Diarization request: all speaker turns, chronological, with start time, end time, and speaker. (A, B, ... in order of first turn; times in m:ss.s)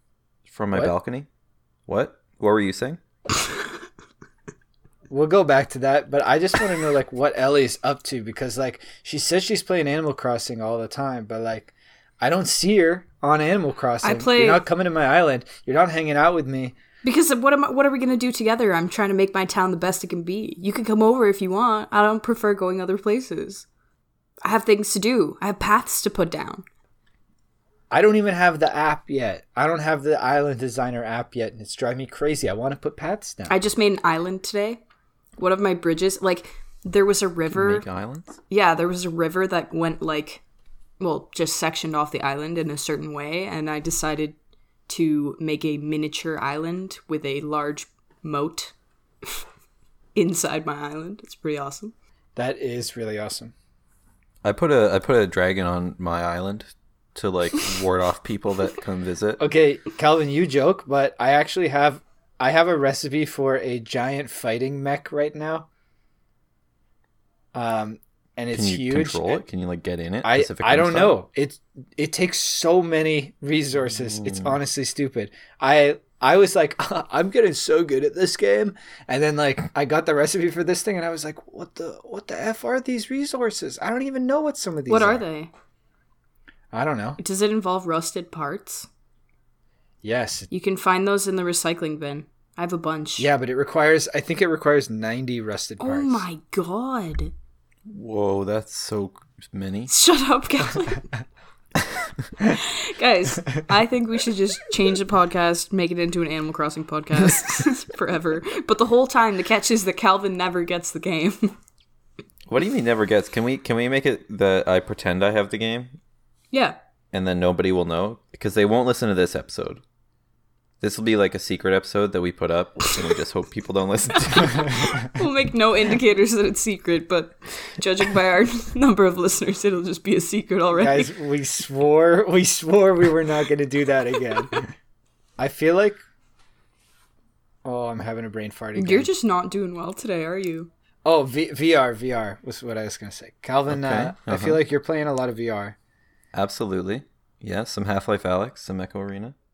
0:00.5-0:01.3 A
0:01.9-0:03.0 A
0:05.1-0:16.7 B
0:14.0-0:14.6 C
0:17.0-0:23.6 C
0:24.4-0:26.6 C
0:27.9-0:33.5 B
0:33.5-0:34.8 C
0:35.4-0:37.8 C
0:37.5-0:38.4 A
0:38.5-0:40.4 C
0:41.0-0:44.3 C
0:44.9-0:48.7 C
0:50.1-0:51.9 C
0:52.4-0:53.5 B
0:54.4-0:59.4 A
0:59.4-1:05.7 B
1:07.5-1:09.4 B
1:08.5-1:11.2 A
1:10.2-1:25.2 B
1:14.2-1:14.5 A
1:24.9-1:25.5 C
1:26.7-1:27.2 B
1:27.2-1:28.9 C
1:30.0-1:30.5 B
1:30.5-1:33.3 C
1:33.2-1:36.2 B
1:35.8-1:37.3 C
1:37.8-1:39.9 A
1:39.9-1:41.1 C
1:42.5-1:51.6 C
1:52.5-1:56.0 A
1:56.5-1:56.8 C
1:57.1-1:59.8 A
2:00.8-2:04.9 A
2:04.2-2:11.1 C
2:10.8-2:14.7 B
2:15.4-2:16.0 B
2:17.6-2:19.1 B
2:18.7-2:20.7 C
2:21.0-2:25.8 B
2:23.7-2:24.6 A
2:26.3-2:29.3 A